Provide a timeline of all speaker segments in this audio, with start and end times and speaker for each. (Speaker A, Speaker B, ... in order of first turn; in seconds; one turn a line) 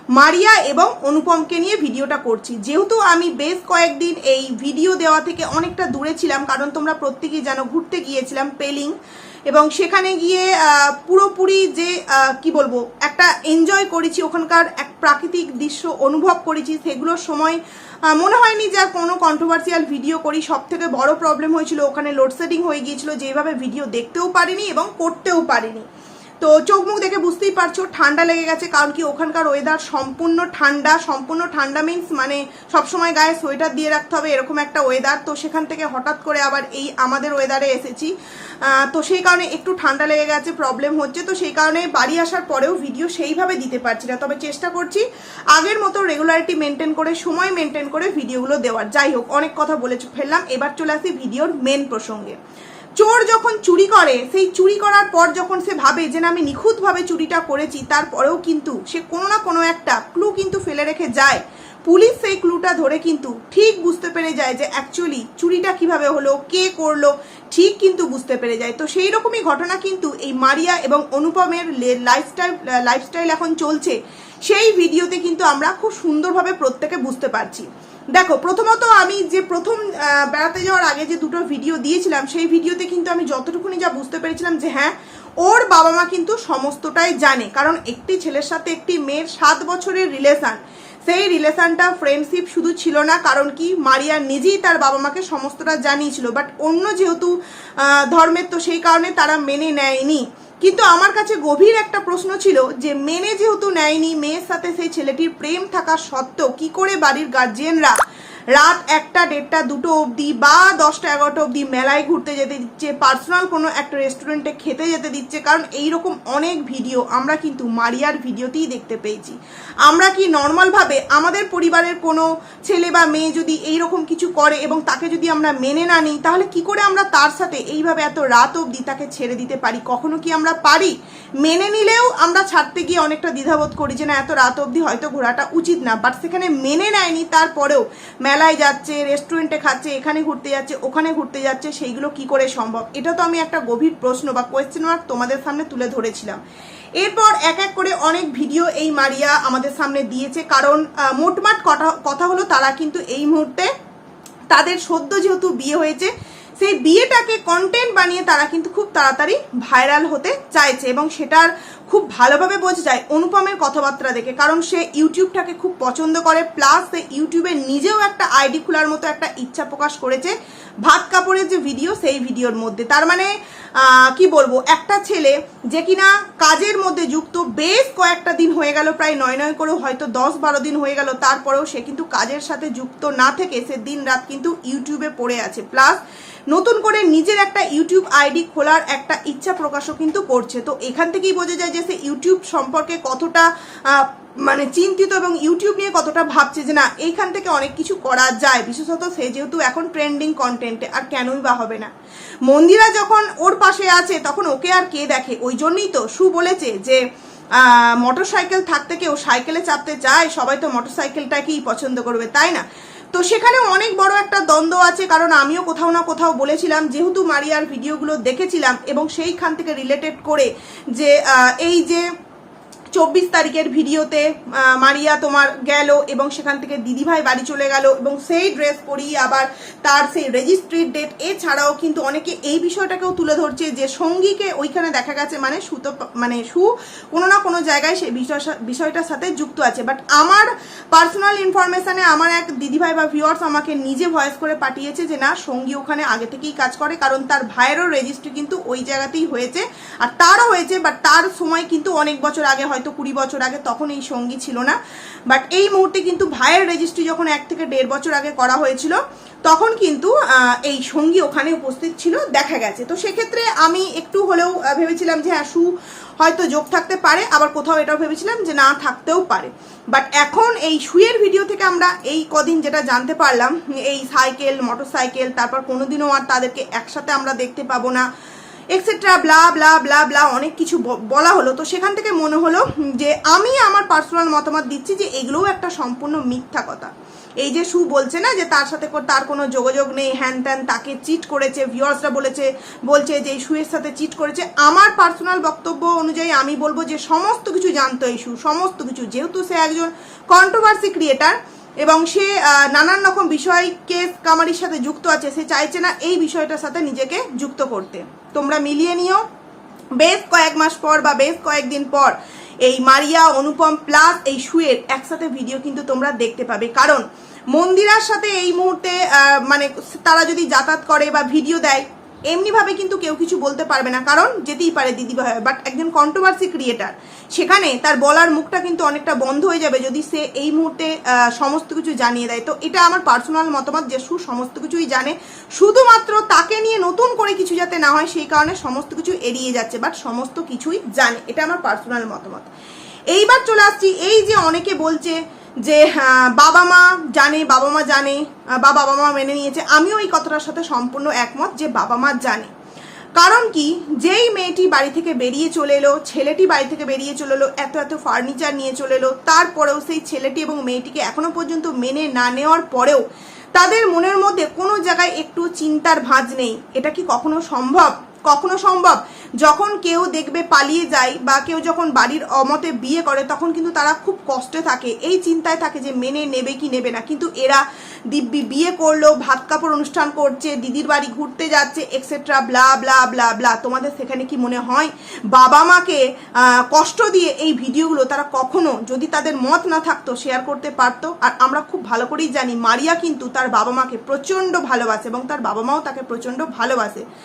Speaker A: 0.1-8.9
Speaker A: 9.5-25.9
Speaker A: 26.4-52.4
Speaker A: 53.0-108.0
Speaker A: 108.5-146.4
Speaker A: 147.0-153.7
Speaker A: 154.5-186.0
Speaker A: 186.5-201.9
Speaker A: 202.5-207.0
Speaker A: 207.5-222.1
Speaker A: 222.9-254.8
Speaker A: 255.3-278.1
Speaker A: 278.7-286.9
Speaker A: 287.4-309.2
Speaker A: 310.0-342.5
Speaker A: 343.1-352.5
Speaker A: 353.2-363.0
Speaker A: 363.5-397.0